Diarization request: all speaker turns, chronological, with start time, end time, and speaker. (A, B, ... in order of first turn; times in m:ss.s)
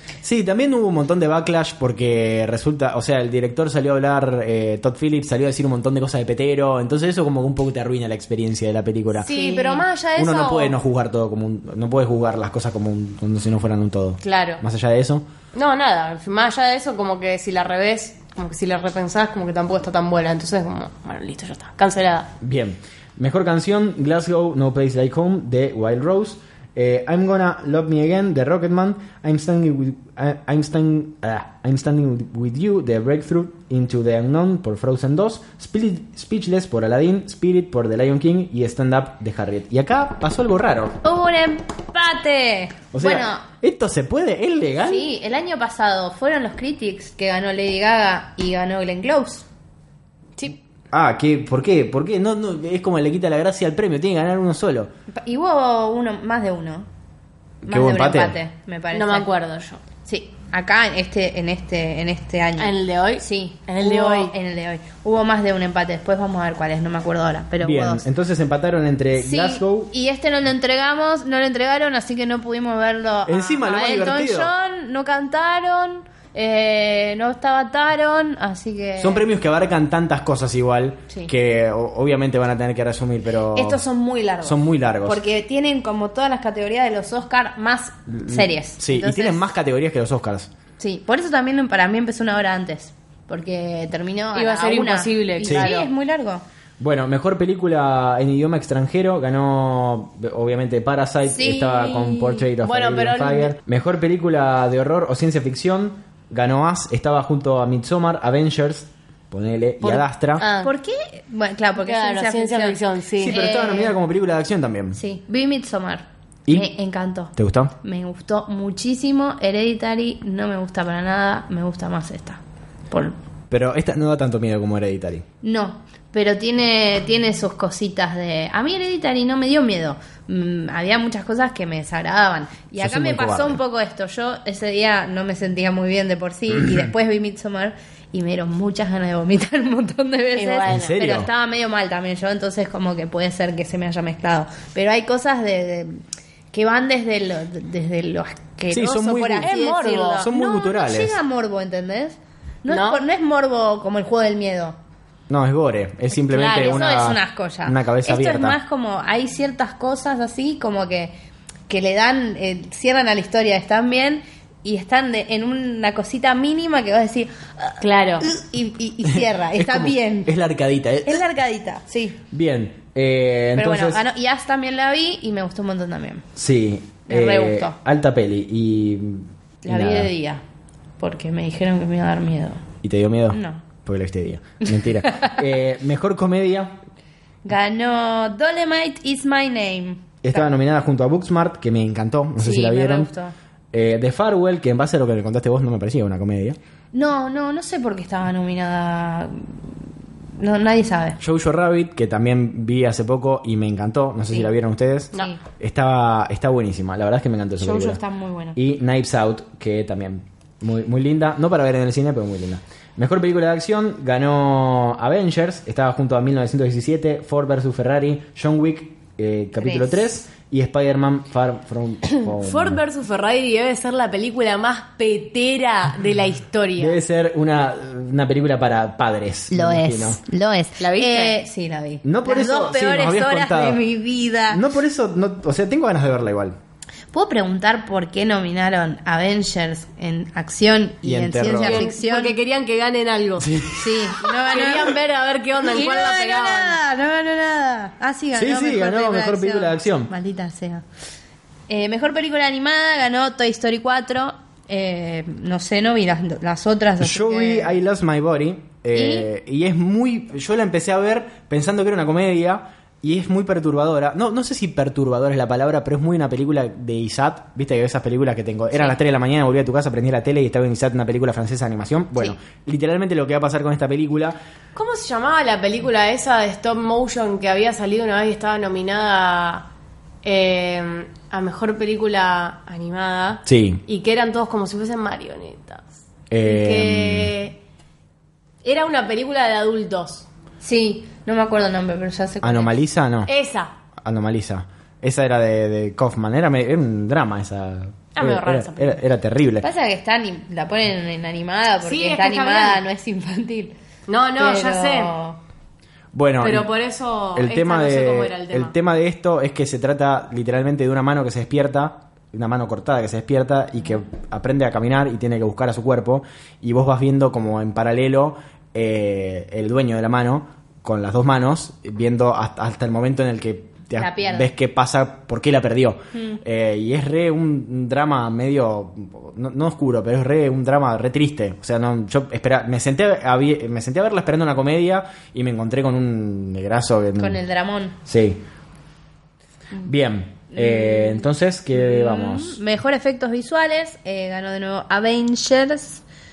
0:00.2-0:09.3 A
0:09.2-0:10.8 B
0:09.3-0:09.8 C
0:10.2-0:15.3 A
0:14.2-0:14.6 B
0:15.6-0:22.3 B
0:22.4-0:41.0 A
0:41.0-0:43.4 C
0:42.9-0:45.1 A
0:44.8-0:49.5 C
0:50.9-0:54.9 A
0:55.2-0:56.9 C
0:57.6-0:58.4 A
0:57.6-0:59.3 C
0:58.9-0:59.8 B
1:00.0-1:08.1 C
1:02.6-1:04.3 B
1:07.6-1:09.9 A
1:09.2-1:19.3 C
1:13.3-1:14.5 A
1:19.0-1:23.8 A
1:23.5-1:29.5 C
1:24.4-1:25.2 A
1:28.1-1:30.5 A
1:30.8-1:36.4 C
1:34.3-1:35.9 B
1:35.4-1:35.7 A
1:36.8-1:50.4 A
1:41.3-1:42.5 C
1:42.6-1:43.6 B
1:49.8-1:50.7 B
1:50.6-1:54.0 C
1:51.8-1:53.5 B
1:53.2-1:55.0 A
1:54.9-2:03.2 C
1:57.4-1:57.7 A
2:03.5-2:05.2 A
2:05.4-2:26.0 C
2:12.8-2:13.6 A
2:20.4-2:21.0 B
2:20.7-2:21.3 A
2:26.5-2:34.8 C
2:28.7-2:29.5 A
2:29.4-2:30.3 B
2:30.2-2:31.2 A
2:32.7-2:33.0 B
2:35.3-2:38.6 A
2:36.1-2:41.1 C
2:41.7-2:50.3 C
2:47.8-2:48.3 B
2:49.0-2:51.2 A
2:51.0-2:52.2 C
2:52.3-2:54.0 A
2:53.6-2:56.2 C
2:56.4-3:00.1 A
2:57.1-2:57.8 C
2:59.6-3:00.4 C
3:01.0-3:02.6 C
3:02.8-3:06.8 A
3:03.3-3:03.6 C
3:07.4-3:10.5 C
3:10.2-3:13.1 A
3:12.4-3:13.3 C
3:13.7-3:16.6 A
3:16.9-3:19.7 C
3:20.4-3:21.2 C
3:21.2-3:28.0 A
3:25.1-3:25.4 C
3:27.6-3:28.6 C
3:28.6-3:42.8 A
3:39.6-3:40.0 C
3:42.2-3:47.0 B
3:46.8-3:50.2 A
3:49.5-3:54.6 C
3:50.8-3:51.4 B
3:52.0-3:53.8 A
3:54.5-3:56.6 A
3:57.1-4:02.3 C
4:01.0-4:01.9 A
4:01.6-4:03.5 B
4:03.4-4:04.2 A
4:03.8-4:05.0 C
4:04.4-4:06.8 B
4:05.6-4:10.8 C
4:08.4-4:10.1 A
4:11.7-4:17.8 C
4:17.0-4:34.4 A
4:18.9-4:19.3 C
4:34.8-4:39.7 B
4:40.2-4:45.9 B
4:43.5-4:43.8 A
4:46.3-4:47.3 A
4:46.4-4:47.6 B
4:48.6-4:50.3 B
4:50.6-4:52.8 C
4:52.4-4:53.3 A
4:53.3-4:53.7 B
4:54.0-4:59.7 A
4:58.2-4:59.0 B
4:59.6-5:03.7 C
5:01.8-5:02.8 B
5:04.1-5:05.1 B
5:04.4-5:05.4 C
5:06.1-5:06.7 A
5:06.4-5:08.7 B
5:07.4-5:37.4 A
5:24.0-5:24.5 C
5:26.2-5:26.4 C
5:37.2-5:38.0 C
5:38.1-5:38.4 A
5:39.8-5:42.6 A
5:40.5-5:46.0 C